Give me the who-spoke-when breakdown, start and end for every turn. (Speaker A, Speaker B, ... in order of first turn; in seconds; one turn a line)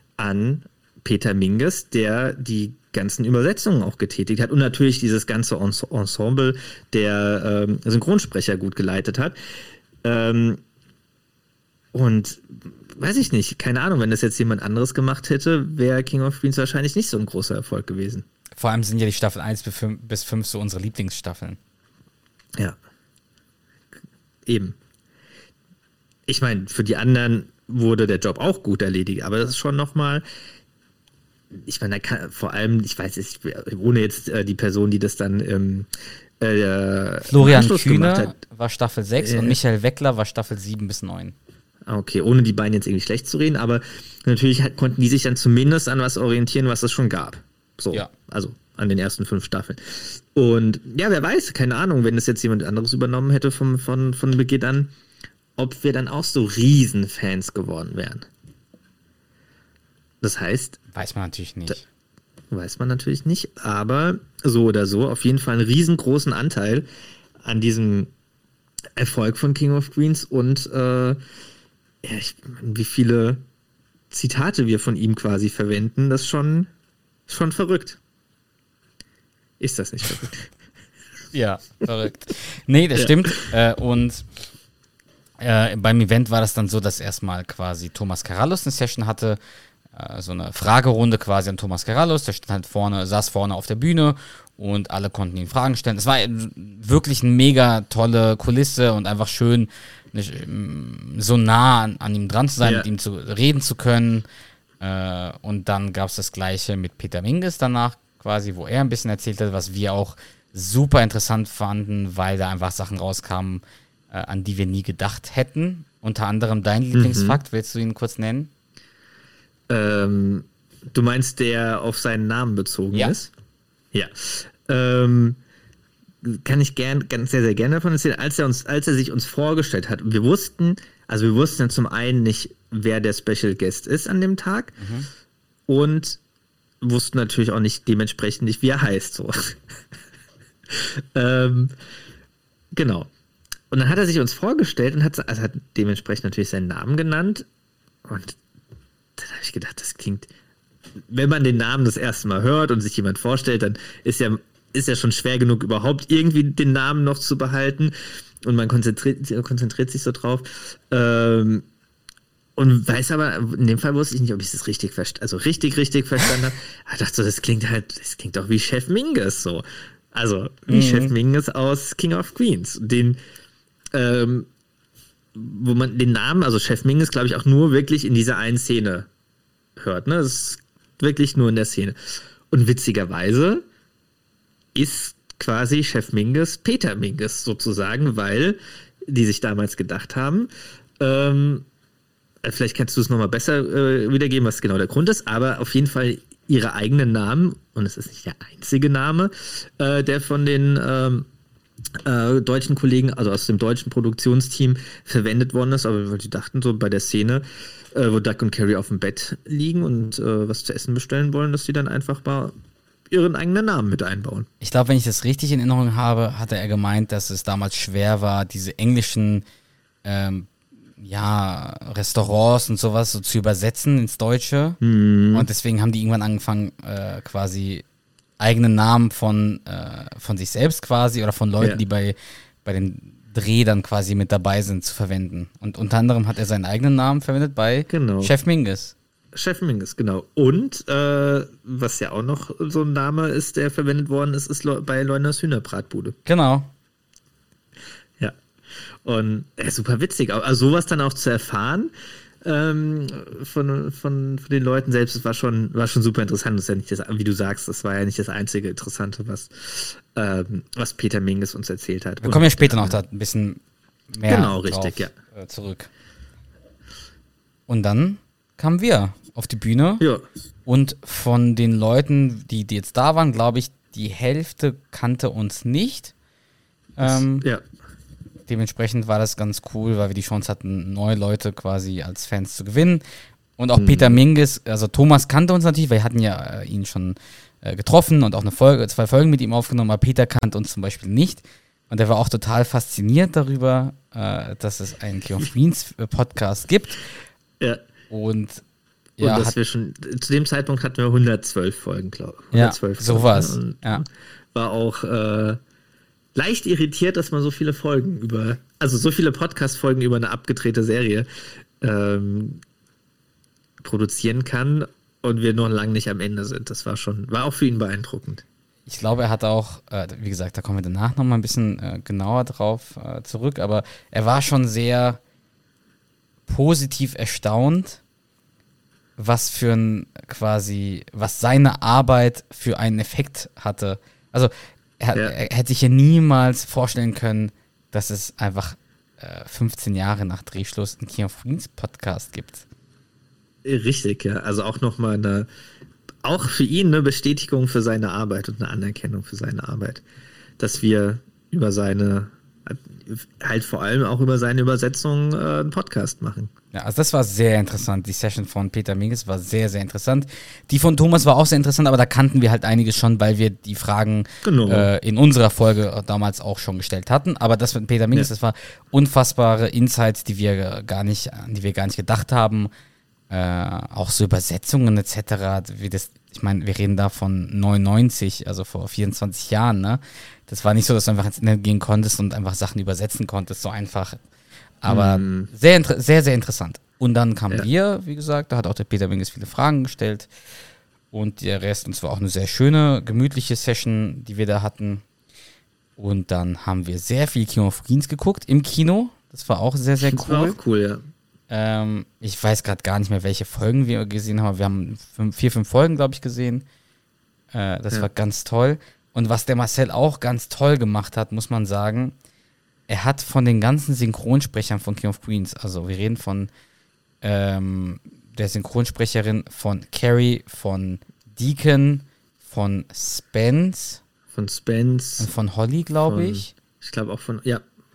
Speaker A: 0.2-9.4
Speaker A: 10.0-10.6
Speaker A: 11.9-18.3
Speaker B: 18.6-21.6
Speaker A: 24.5-24.8
Speaker A: 26.3-30.2
Speaker A: 31.5-35.9
Speaker A: 36.4-38.4
Speaker B: 37.3-41.4
Speaker A: 39.2-39.6
Speaker A: 41.9-54.9
Speaker A: 55.6-58.3
Speaker A: 60.2-60.8
Speaker B: 60.9-61.8
Speaker A: 62.5-66.9
Speaker A: 67.4-68.1
Speaker A: 69.0-71.2
Speaker A: 72.0-73.5
Speaker A: 74.1-76.7
Speaker A: 77.3-78.0
Speaker A: 79.6-80.5
Speaker B: 81.3-84.3
Speaker A: 83.0-83.5
Speaker B: 85.4-89.4
Speaker B: 89.9-104.3
Speaker A: 102.6-102.9
Speaker B: 104.8-118.5
Speaker A: 116.9-117.4
Speaker A: 119.7-123.3
Speaker A: 123.9-125.4
Speaker A: 126.2-134.8
Speaker B: 134.8-135.1
Speaker A: 135.7-136.2
Speaker A: 136.8-139.8
Speaker A: 140.7-141.7
Speaker A: 142.7-143.1
Speaker A: 143.7-147.5
Speaker A: 148.1-148.4
Speaker A: 149.2-150.3
Speaker A: 151.1-161.7
Speaker A: 162.6-173.2
Speaker B: 170.7-171.2
Speaker A: 173.9-174.5
Speaker A: 175.3-179.1
Speaker A: 179.8-183.7
Speaker A: 184.8-191.7
Speaker A: 192.4-201.3
Speaker A: 202.0-212.6
Speaker A: 213.1-214.5
Speaker B: 214.6-219.4
Speaker B: 220.0-224.8
Speaker A: 224.8-225.5
Speaker B: 225.3-227.8
Speaker B: 228.4-238.9
Speaker A: 237.9-238.3
Speaker A: 239.3-246.2
Speaker B: 246.3-246.7
Speaker A: 249.0-263.0
Speaker B: 262.2-263.6
Speaker B: 264.1-265.9
Speaker A: 264.3-265.1
Speaker B: 267.7-270.1
Speaker A: 270.0-270.2
Speaker B: 270.7-276.1
Speaker B: 277.0-277.4
Speaker A: 277.0-277.6
Speaker B: 278.5-283.0
Speaker B: 283.6-297.0
Speaker A: 283.8-284.2
Speaker B: 298.1-298.6
Speaker B: 299.2-299.6
Speaker A: 299.2-305.6
Speaker B: 302.5-304.0
Speaker A: 306.4-311.3
Speaker A: 311.8-312.6
Speaker A: 313.8-318.4
Speaker B: 318.9-325.2
Speaker B: 326.5-328.0
Speaker B: 329.2-342.6
Speaker A: 343.6-345.5
Speaker A: 346.2-350.0
Speaker A: 350.6-356.5
Speaker B: 356.7-372.7
Speaker A: 364.4-364.9
Speaker B: 373.3-384.2
Speaker B: 384.8-390.3
Speaker A: 384.9-385.5
Speaker B: 391.1-395.0
Speaker B: 396.0-400.6
Speaker A: 400.0-401.1
Speaker B: 401.5-406.6
Speaker B: 407.5-412.1
Speaker B: 412.9-416.5
Speaker B: 417.2-424.0
Speaker A: 424.3-425.3
Speaker B: 425.2-426.5
Speaker A: 426.0-427.6